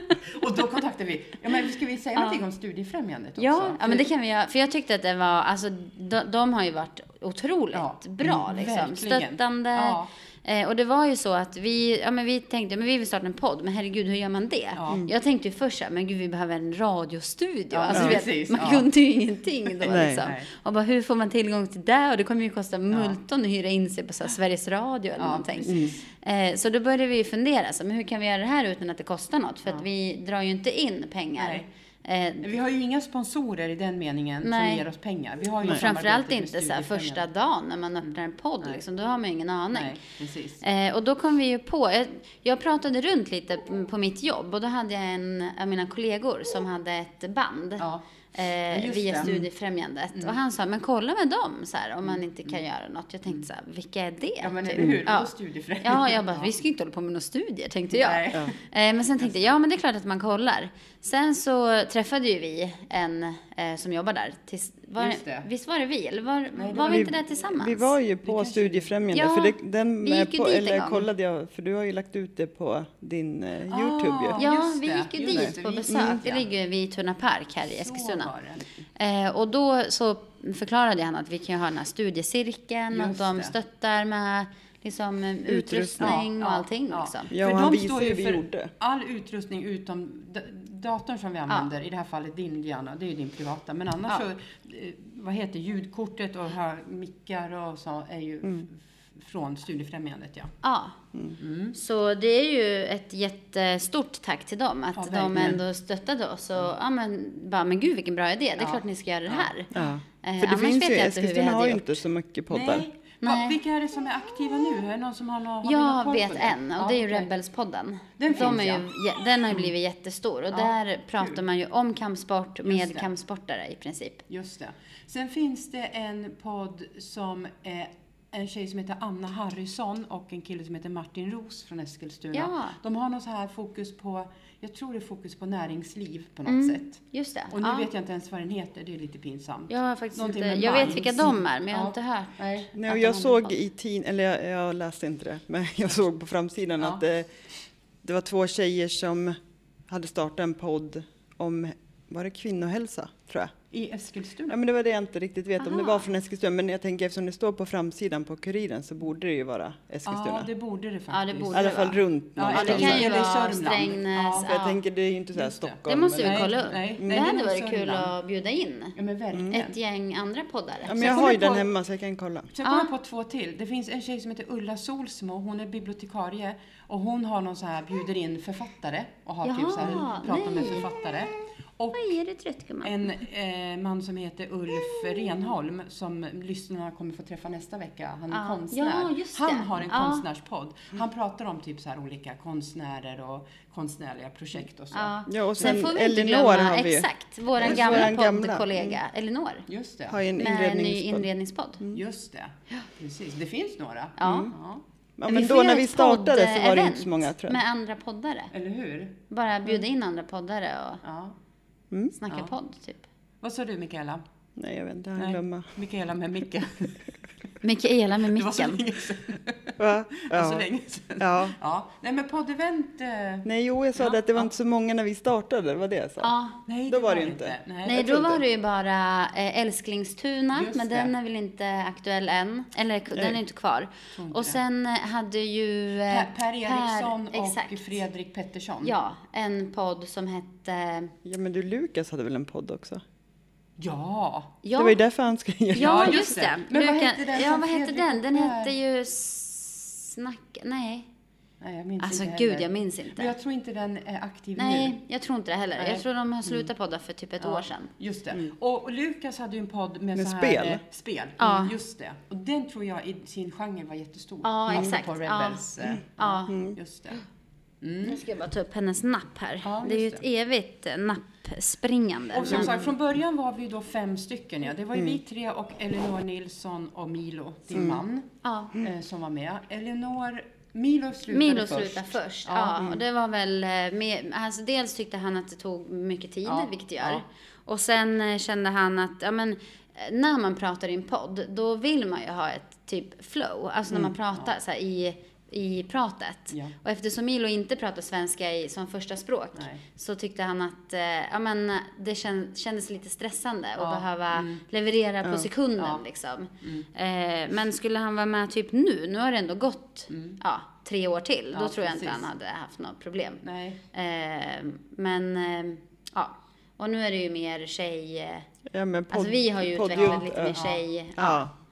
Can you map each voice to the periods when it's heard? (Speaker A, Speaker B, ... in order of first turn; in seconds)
Speaker A: 0.2-4.1, 7.7-10.1, 14.7-15.1, 17.7-18.9, 19.7-20.5, 22.9-23.2, 25.2-26.0, 31.4-31.7, 32.4-37.3, 39.7-40.6, 47.8-48.0, 48.7-49.3, 52.0-52.6, 54.4-56.5, 57.9-58.6, 65.0-65.5, 66.5-67.4, 68.2-68.9, 73.7-76.5, 77.7-78.7, 82.9-83.5, 86.0-100.5, 101.4-101.8, 104.9-105.6, 108.6-109.9, 112.5-117.3, 118.2-118.9, 120.5-121.4, 122.6-123.1, 124.3-142.7, 153.7-154.6, 160.1-164.5, 165.3-168.1, 168.9-169.8, 170.9-171.7, 172.5-182.2, 182.8-195.8, 199.7-200.2, 201.9-204.8, 208.5-209.2, 211.0-211.3, 212.3-212.5, 213.4-214.2, 215.2-217.0, 218.3-224.5, 226.7-228.2, 230.5-231.1, 234.1-234.6, 236.1-238.9, 243.8-244.6, 245.8-248.7, 251.6-255.0, 255.8-256.7, 257.4-267.2, 267.8-268.2, 269.6-270.2, 272.3-278.3, 278.8-282.9, 286.4-287.2, 296.5-296.8, 299.5-299.8, 303.8-304.6, 305.8-306.0, 306.6-306.9, 310.1-310.4, 311.5-312.3, 313.4-313.8, 319.9-320.8
Speaker B: 2.1-2.4, 3.4-32.5, 34.4-34.8, 35.6-40.0, 40.6-55.3, 55.8-67.9, 69.1-71.1, 74.4-78.3, 79.0-87.3, 100.6-101.0, 101.7-109.7, 110.2-112.0, 113.2-113.6, 115.6-124.2, 132.3-132.8, 136.5-137.9, 139.7-143.6, 155.6-156.1, 161.1-164.8, 165.9-169.0, 169.5-171.3, 172.6-172.9, 179.4-181.1, 181.9-183.1, 188.3-190.2, 194.9-199.7, 200.4-201.8, 204.2-204.5, 205.3-208.5, 209.3-211.0, 212.2-213.0, 217.6-218.8, 226.2-226.6, 227.8-238.0, 238.8-241.1, 244.6-245.0, 245.7-251.1, 252.0-253.3, 254.6-257.9, 261.4-261.8, 264.4-266.6, 268.0-272.8, 278.4-278.7, 281.3-318.5, 319.1-321.4
Speaker C: 19.8-20.3, 66.9-74.4, 75.3-76.2, 85.5-86.2, 87.3-88.7, 109.7-112.8, 142.8-147.3, 148.0-149.4, 149.9-153.5, 154.5-160.5, 161.5-163.1, 164.4-167.2, 170.8-172.5, 195.3-199.0, 200.1-201.3, 204.2-204.5, 205.2-207.6, 211.9-212.2, 214.6-215.7, 219.8-220.7, 221.2-221.5, 223.4-226.3, 226.9-228.4, 233.1-233.4, 241.2-243.0, 244.8-246.1, 260.1-260.8, 266.5-266.8, 277.7-278.0, 305.2-305.5, 318.7-320.6, 321.2-321.5